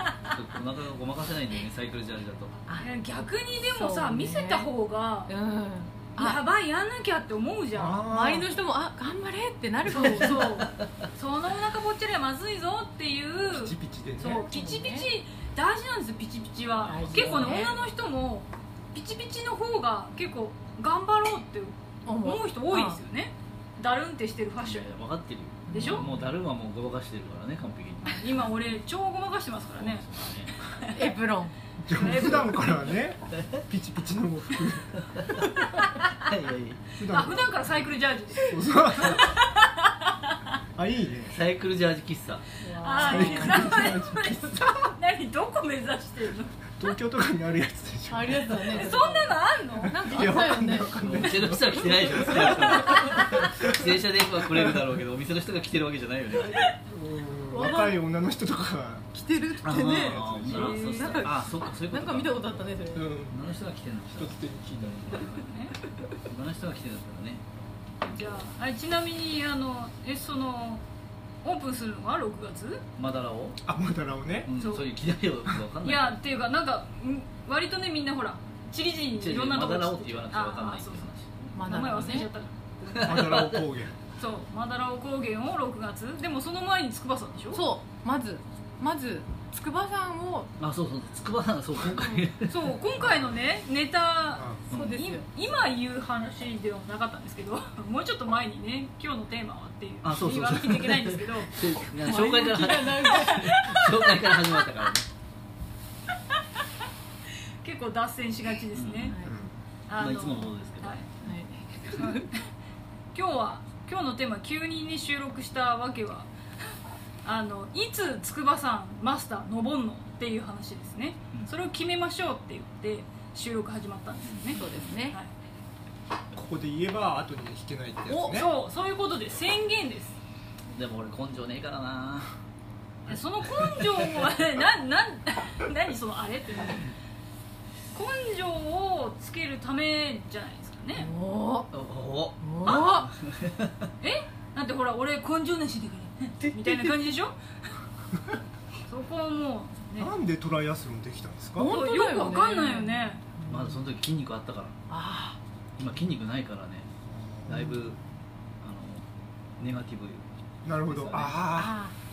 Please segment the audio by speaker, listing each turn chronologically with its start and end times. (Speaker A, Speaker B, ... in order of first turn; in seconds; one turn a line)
Speaker A: 0.2-2.5
Speaker B: 2.8-5.3
Speaker C: 3.6-4.7
Speaker C: 5.3-6.4
Speaker B: 6.2-8.0
Speaker D: 7.7-8.6
Speaker C: 8.0-10.6
Speaker B: 9.9-24.9
Speaker A: 9.9-10.9
Speaker D: 13.4-14.4
Speaker C: 14.4-15.1
Speaker A: 16.8-17.7
Speaker C: 16.9-17.8
Speaker C: 22.1-23.0
Speaker A: 24.6-28.4
Speaker C: 25.7-26.3
Speaker B: 25.7-26.1
Speaker B: 28.0-30.0
Speaker A: 29.8-30.6
Speaker B: 30.7-31.1
Speaker C: 30.9-31.5
Speaker D: 31.8-34.9
Speaker B: 31.9-32.6
Speaker A: 32.0-32.6
Speaker A: 33.3-33.6
Speaker A: 35.0-36.9
Speaker D: 37.0-39.4
Speaker B: 37.0-40.4
Speaker D: 40.7-41.4
Speaker A: 41.3-42.4
Speaker C: 42.6-43.9
Speaker B: 42.8-46.5
Speaker D: 43.0-44.9
Speaker D: 46.8-48.9
Speaker C: 48.1-50.9
Speaker B: 48.7-50.2
Speaker D: 49.8-54.0
Speaker A: 51.0-56.7
Speaker D: 54.5-54.8
Speaker D: 56.4-60.8
Speaker C: 57.5-58.0
Speaker C: 59.1-63.2
Speaker A: 59.6-62.7
Speaker B: 60.5-61.3
Speaker D: 62.9-63.4
Speaker A: 63.3-65.5
Speaker D: 64.1-65.2
Speaker B: 65.2-65.7
Speaker A: 66.2-67.4
Speaker B: 68.0-70.8
Speaker B: 71.4-72.8
Speaker A: 73.0-73.6
Speaker D: 73.6-74.5
Speaker A: 74.4-76.2
Speaker B: 74.6-74.9
Speaker B: 75.8-83.5
Speaker A: 79.2-82.0
Speaker C: 81.5-82.3
Speaker A: 82.9-83.7
Speaker D: 83.0-84.0
Speaker B: 84.2-87.6
Speaker C: 87.5-90.5
Speaker A: 90.6-92.5
Speaker B: 91.9-101.5
Speaker D: 94.3-94.6
Speaker C: 94.7-95.2
Speaker A: 94.7-95.0
Speaker A: 100.0-105.0
Speaker C: 101.9-103.9
Speaker B: 103.1-103.6
Speaker B: 107.6-109.2
Speaker A: 108.7-109.1
Speaker C: 109.1-109.4
Speaker D: 109.2-109.5
Speaker B: 109.9-111.1
Speaker A: 109.9-111.0
Speaker C: 111.2-112.3
Speaker B: 111.9-112.4
Speaker B: 113.1-116.3
Speaker B: 117.2-125.3
Speaker A: 124.2-124.6
Speaker C: 124.5-125.2
Speaker D: 126.3-128.5
Speaker C: 128.1-128.4
Speaker B: 128.3-130.2
Speaker A: 130.7-132.3
Speaker B: 133.1-136.9
Speaker A: 133.4-134.0
Speaker B: 137.9-141.1
Speaker C: 140.9-141.7
Speaker A: 141.7-143.9
Speaker C: 142.4-143.1
Speaker B: 144.0-147.3
Speaker A: 146.4-147.0
Speaker B: 148.9-150.1
Speaker D: 150.0-151.7
Speaker C: 151.6-153.8
Speaker B: 151.6-153.2
Speaker A: 153.5-154.8
Speaker C: 154.9-155.4
Speaker A: 155.8-156.9
Speaker D: 157.1-157.9
Speaker A: 157.5-158.0
Speaker A: 158.6-159.1
Speaker A: 159.6-160.3
Speaker D: 160.6-161.8
Speaker A: 160.8-161.4
Speaker C: 161.5-161.9